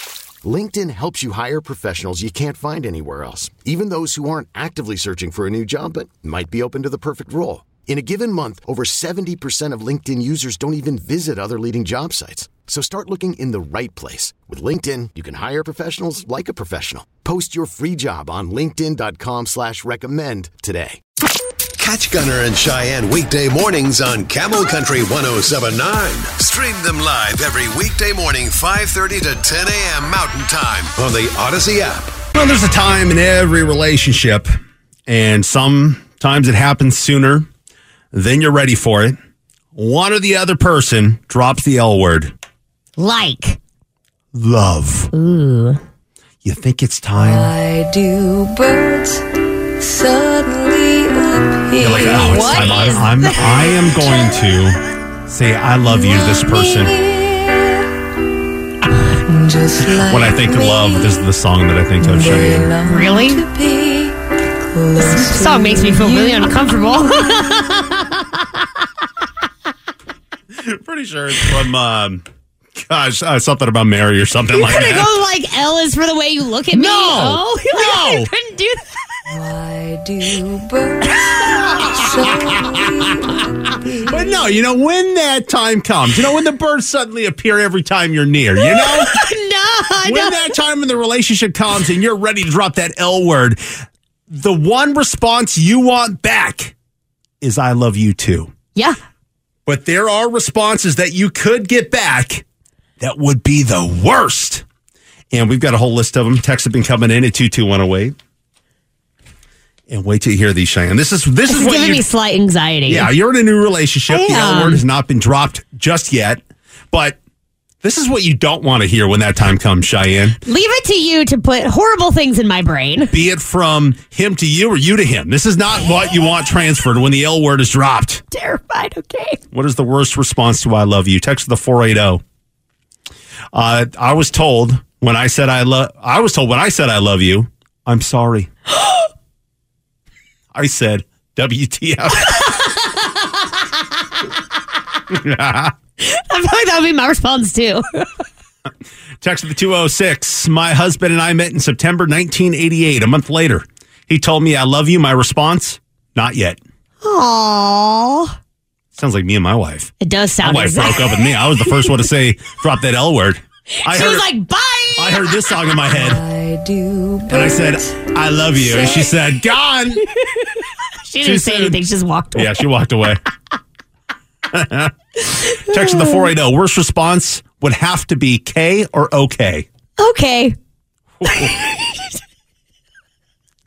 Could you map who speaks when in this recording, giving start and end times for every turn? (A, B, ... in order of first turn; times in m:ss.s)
0:00.4-0:21.0 A
0:21.8-0:32.2 B
0:32.2-0:34.5 C
0:35.1-0:37.4 C
0:38.1-0:39.2 C
0:39.8-0:42.3 C
0:43.0-0:43.6 D
0:44.3-0:45.1 C
0:45.1-0:45.8 D
0:46.4-0:47.5 C
0:47.1-0:49.2 E
0:49.8-0:52.6 E
0:51.8-0:57.0 C
0:52.1-0:54.0 D
0:56.4-0:57.8 E
0:59.2-1:01.0 E
1:00.0-1:02.7 C
1:02.0-1:04.1 E
1:02.8-1:03.5 D
1:04.7-1:06.4 E
1:05.0-1:08.7 D
1:10.5-1:12.2 C
1:12.8-1:15.1 C
1:14.5-1:19.4 D
1:16.7-1:18.3 C
1:19.3-1:21.1 E
1:21.0-1:29.1 C
1:21.9-1:24.4 E
1:28.6-1:30.6 D
1:30.0-1:36.7 C
1:37.4-1:38.5 C
1:39.7-1:42.4 C
1:43.0-1:44.6 C
1:45.3-1:48.1 C
1:49.9-1:52.1 C
1:51.5-1:53.1 D
1:52.9-1:56.4 C
1:54.1-1:54.8 D
1:56.9-1:57.2 C
1:57.8-2:00.4 C
2:00.4-2:03.1 D
2:03.1-2:08.2 C
2:08.3-2:09.4 D
2:09.5-2:12.2 C
2:13.5-2:18.5 C
2:18.8-2:19.0 D
2:20.5-2:22.6 C
2:22.3-2:23.2 D
2:25.1-2:25.7 C
2:26.0-2:28.1 D
2:29.2-2:36.6 C
2:37.0-2:38.3 D
2:38.9-2:39.9 C
2:40.0-2:42.0 D
2:40.4-2:44.3 C
2:43.8-2:45.6 D
2:45.0-2:46.2 C
2:46.0-2:47.7 E
2:47.3-2:50.0 C
2:48.6-2:49.3 D
2:50.1-2:52.6 D
2:51.2-2:51.8 C
2:52.3-2:53.2 C
2:54.5-2:59.7 C
2:55.7-2:56.3 D
3:00.0-3:00.6 D
3:01.2-3:01.5 C
3:01.2-3:02.1 D